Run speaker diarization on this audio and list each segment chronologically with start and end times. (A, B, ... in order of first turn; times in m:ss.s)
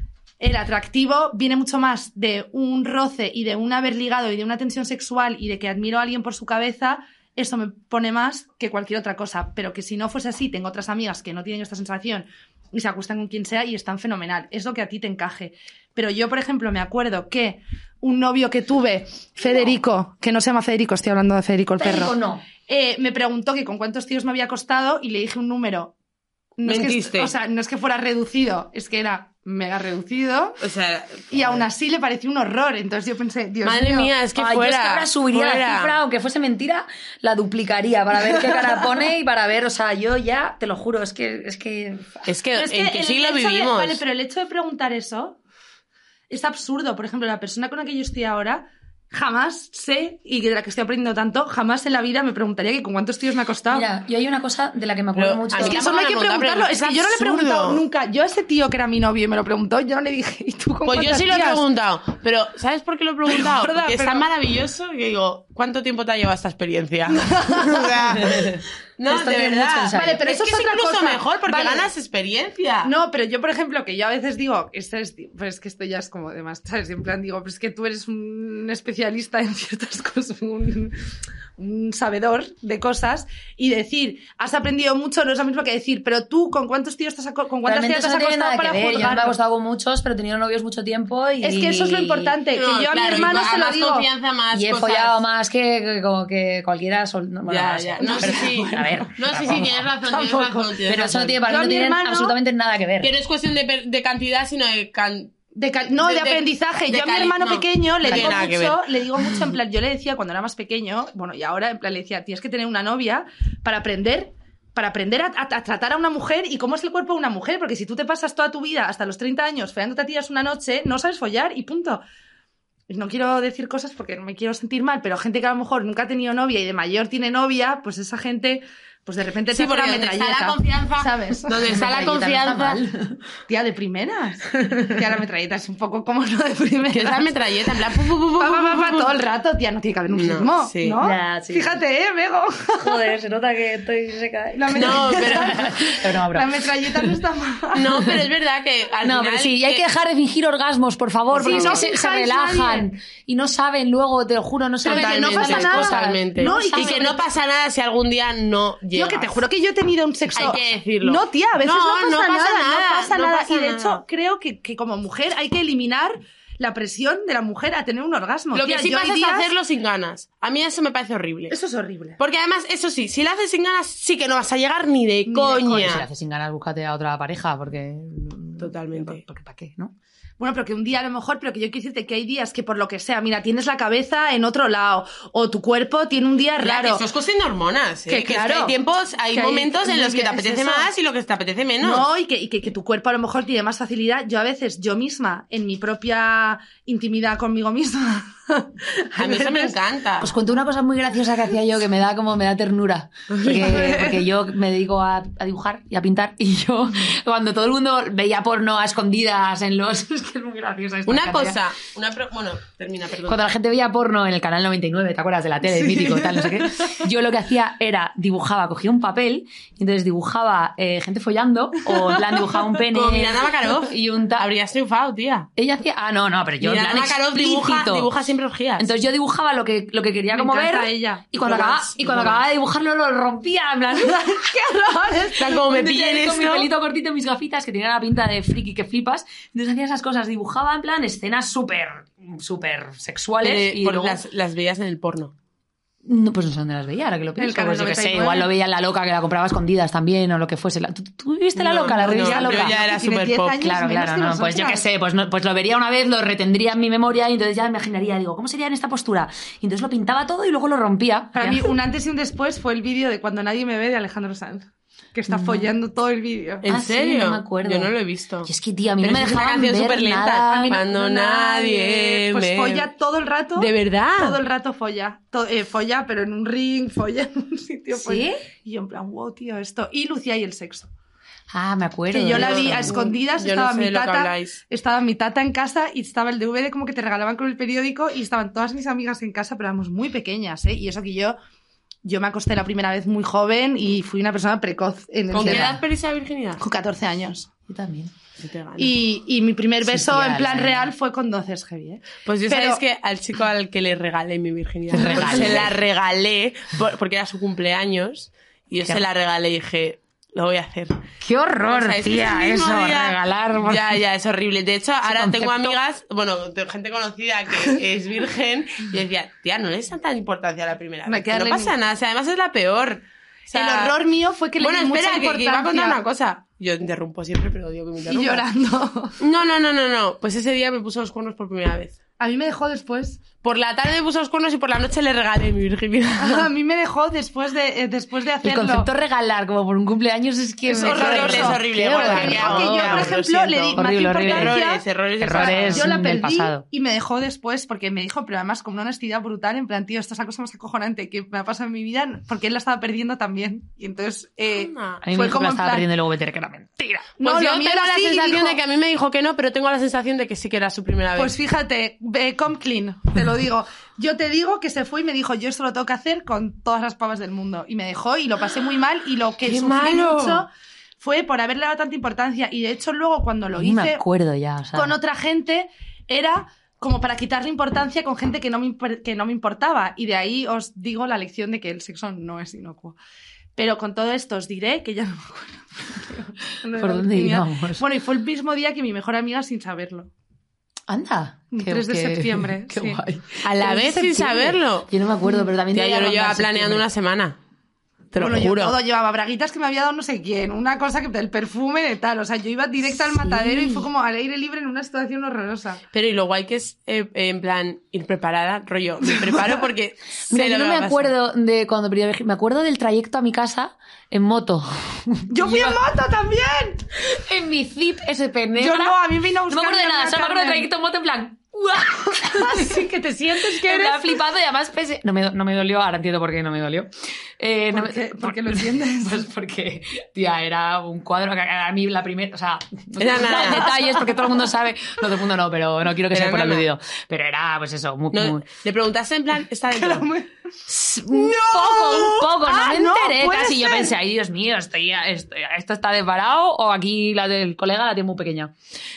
0:00.4-0:25.9 A
0:21.8-0:22.4 B
0:26.6-0:30.6 A
0:26.6-0:27.3 C
0:30.6-0:31.6 C
0:31.3-0:34.1 A
0:33.6-0:36.0 C
0:34.4-0:42.3 B
0:42.3-0:44.0 C
0:42.6-0:45.4 A
0:46.3-0:53.9 A
0:53.7-0:55.8 B
0:55.2-0:57.8 C
0:55.6-1:01.6 A
1:00.9-1:12.9 C
1:03.3-1:04.3 A
1:07.1-1:08.2 A
1:08.2-1:10.2 B
1:09.9-1:11.9 A
1:12.8-1:21.0 A
1:21.6-1:29.4 A
1:27.6-1:32.4 B
1:31.4-1:34.1 A
1:32.5-1:35.2 C
1:34.5-1:39.9 B
1:37.5-1:41.4 C
1:38.0-1:38.9 A
1:40.0-1:42.4 A
1:40.8-1:43.1 B
1:43.0-1:45.4 C
1:45.6-2:02.0 A
1:46.0-1:48.8 C
1:48.1-1:48.5 B
2:02.9-2:11.6 A
2:09.5-2:12.8 C
2:11.7-2:13.2 B
2:13.5-2:17.3 A
2:16.9-2:19.1 C
2:18.4-2:23.1 A
2:20.1-2:21.0 C
2:21.0-2:21.8 B
2:22.8-2:27.1 B
2:24.6-2:28.0 A
2:24.8-2:25.7 C
2:27.8-2:29.9 C
2:29.0-2:37.2 B
2:31.3-2:32.9 A
2:31.4-2:31.9 C
2:34.8-2:37.2 A
2:34.9-2:39.4 C
2:38.9-2:49.5 A
2:40.4-2:44.0 C
2:48.5-2:51.6 C
2:51.5-2:52.2 A
2:52.2-2:56.1 C
2:55.3-2:56.0 A
2:55.7-2:59.9 B
2:58.6-2:59.2 C
3:00.4-3:07.0 A
3:06.6-3:12.0 C
3:08.1-3:08.8 A
3:09.3-3:10.9 A
3:11.8-3:19.8 A
3:19.2-3:20.3 C
3:20.2-3:31.6 B
3:23.4-3:24.2 A
3:23.4-3:23.9 C
3:31.1-3:33.4 C
3:33.3-3:44.5 B
3:35.7-3:37.0 A
3:41.9-3:42.6 A
3:42.9-3:45.5 C
3:45.6-3:48.1 B
3:46.6-3:48.9 C
3:48.8-3:54.4 B
3:50.3-3:52.0 A
3:51.4-3:52.4 C
3:54.0-3:55.5 A
3:55.4-3:56.7 C
3:55.5-4:04.2 B
4:03.4-4:05.3 C
4:06.0-4:12.8 B
4:07.4-4:08.5 A
4:11.6-4:13.6 C
4:12.0-4:14.8 A
4:13.6-4:21.7 B
4:21.4-4:26.7 A
4:25.3-4:25.7 B
4:26.6-4:28.5 C
4:26.7-4:27.9 B
4:28.4-4:30.8 B
4:29.0-4:32.9 C
4:30.5-4:40.9 A
4:33.6-4:34.4 C
4:38.0-4:38.4 B
4:41.5-4:42.9 B
4:42.1-4:51.4 A
4:42.3-4:44.6 C
4:52.0-4:55.8 A
4:55.3-4:56.6 C
4:55.4-4:55.8 B
4:56.6-4:57.5 A
4:57.7-4:58.1 B
4:58.4-4:59.0 C
4:58.8-5:02.8 A
4:59.8-5:00.9 B
5:02.3-5:11.1 C
5:04.9-5:05.8 B
5:11.2-5:14.0 B
5:11.7-5:24.0 C
5:15.0-5:15.8 B
5:21.1-5:21.7 A
5:23.5-5:26.0 A
5:24.6-5:28.4 C
5:28.1-5:29.2 A
5:29.2-5:32.0 C
5:32.2-5:33.2 A
5:33.4-5:36.5 C
5:36.2-5:38.9 A
5:38.4-5:44.6 B
5:40.7-5:55.9 A
5:40.7-5:45.9 C
5:45.2-5:46.6 B
5:54.5-5:55.0 C
5:55.0-5:57.2 B
5:57.2-5:58.6 A
5:57.2-6:01.3 C
6:01.2-6:10.5 A
6:09.4-6:10.5 C
6:11.0-6:14.0 A
6:13.6-6:15.0 B
6:14.8-6:23.0 A
6:23.6-6:30.1 A
6:26.8-6:27.8 B
6:30.9-6:33.5 B
6:31.5-6:33.0 A
6:33.4-6:34.9 C
6:33.6-6:34.6 A
6:34.9-6:36.8 B
6:35.7-6:37.4 C
6:38.1-6:38.8 C
6:38.2-6:45.8 A
6:43.1-6:43.9 B
6:45.9-6:51.1 C
6:49.1-6:49.5 A
6:50.3-6:55.8 B
6:55.3-6:56.8 A
6:57.0-7:18.5 B
6:58.6-7:00.7 A
7:02.2-7:04.2 A
7:07.7-7:09.2 A
7:13.0-7:13.8 C
7:13.2-7:14.4 A
7:16.1-7:16.7 C
7:18.1-7:20.1 C
7:19.7-7:20.3 A
7:20.7-7:28.5 B
7:21.1-7:22.3 C
7:22.0-7:24.0 A